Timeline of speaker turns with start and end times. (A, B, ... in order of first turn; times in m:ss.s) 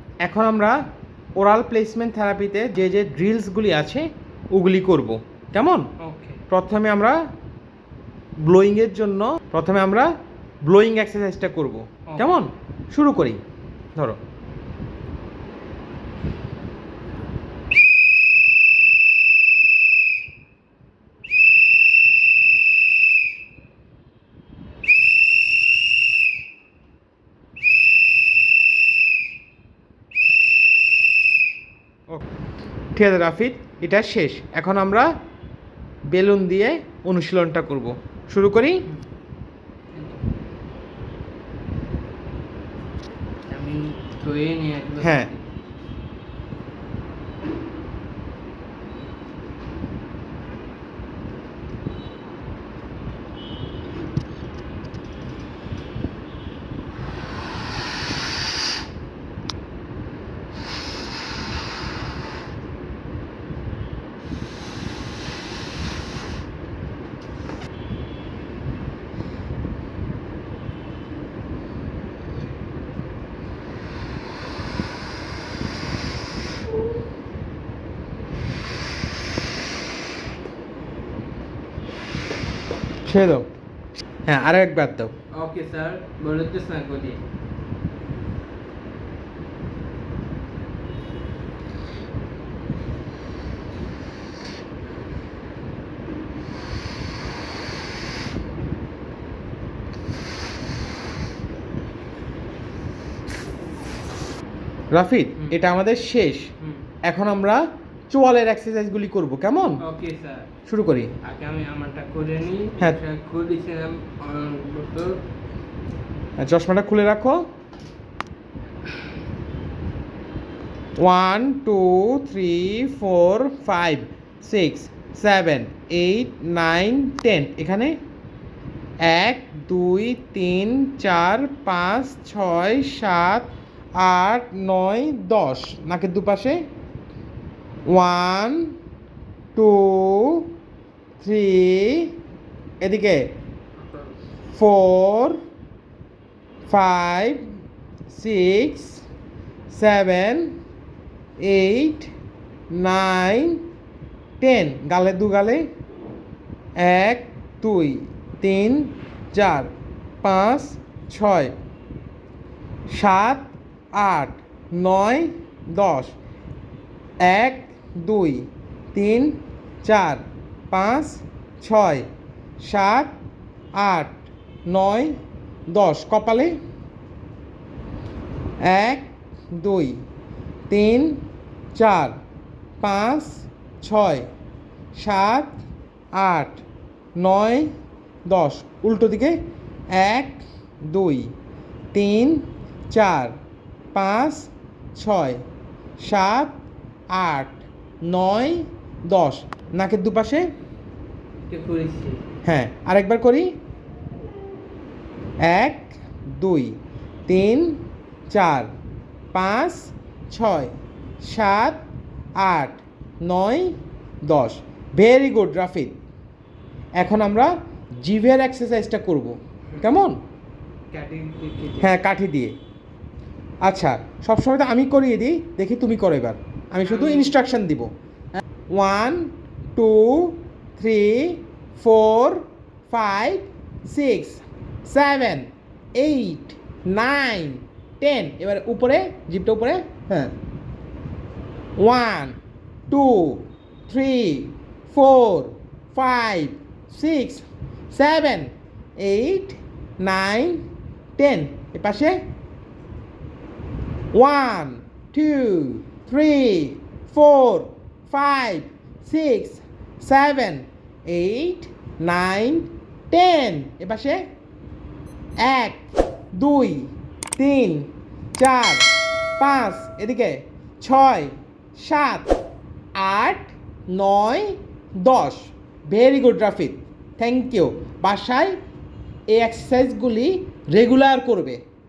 0:00.2-0:00.8 A
0:01.4-0:05.9 A
0:06.0-0:06.4 B
0:06.5-0:07.2 A
0:08.4-0:10.1 A
0:10.6-0:13.4 A
0:12.1-0:12.4 B
0:33.0-0:35.1 A
0:36.1-0:38.8 A
0:39.9-0:40.2 B
0:43.5-0:45.4 B
0:45.0-0:45.3 A
1:23.0-1:23.5 A
1:24.3-1:25.1 A
1:25.3-1:27.2 B
1:44.9-1:46.5 A
1:47.0-1:49.8 A
1:49.8-1:50.5 B
1:50.6-1:51.2 A
1:51.2-1:55.2 B
1:56.4-1:57.4 A
2:01.0-2:08.0 A
2:09.0-2:16.6 A
2:17.9-2:18.7 A
2:19.6-2:20.5 A
2:21.2-2:22.2 A
2:22.8-2:23.3 A
2:24.5-2:25.4 A
2:26.7-2:27.5 A
2:28.1-2:29.0 A
2:29.7-2:30.6 A
2:31.4-2:32.1 A
2:32.7-2:33.6 A
2:34.4-2:35.7 A
2:36.8-2:39.7 A
2:40.2-2:41.5 A
2:42.9-2:46.2 A
2:47.2-2:52.1 A
2:52.6-2:53.1 A
2:53.8-2:54.1 A
2:54.7-2:56.6 A
2:58.6-3:00.0 A
3:00.7-3:01.2 A
3:01.8-3:02.2 A
3:02.8-3:04.3 A
3:05.0-3:05.6 A
3:06.2-3:06.6 A
3:07.2-3:07.7 A
3:08.3-3:09.4 A
3:09.9-3:11.3 A
3:11.9-3:13.4 A
3:13.9-3:15.4 A
3:16.0-3:16.5 A
3:17.1-3:20.5 A
3:21.5-3:22.2 B
3:22.4-3:23.5 A
3:25.4-3:26.8 A
3:27.3-3:28.7 A
3:29.3-3:31.8 A
3:32.4-3:33.8 A
3:34.3-3:36.0 A
3:37.0-3:40.2 A
3:40.9-3:41.9 B
3:41.8-3:42.6 A
3:43.6-3:47.9 A
3:46.8-3:47.4 B
3:48.7-4:00.3 A
4:01.8-4:02.4 A
4:02.9-4:12.2 A
4:14.1-4:24.2 A
4:25.4-4:25.8 A
4:26.3-4:32.4 A
4:33.0-4:38.6 A
4:39.3-4:41.6 A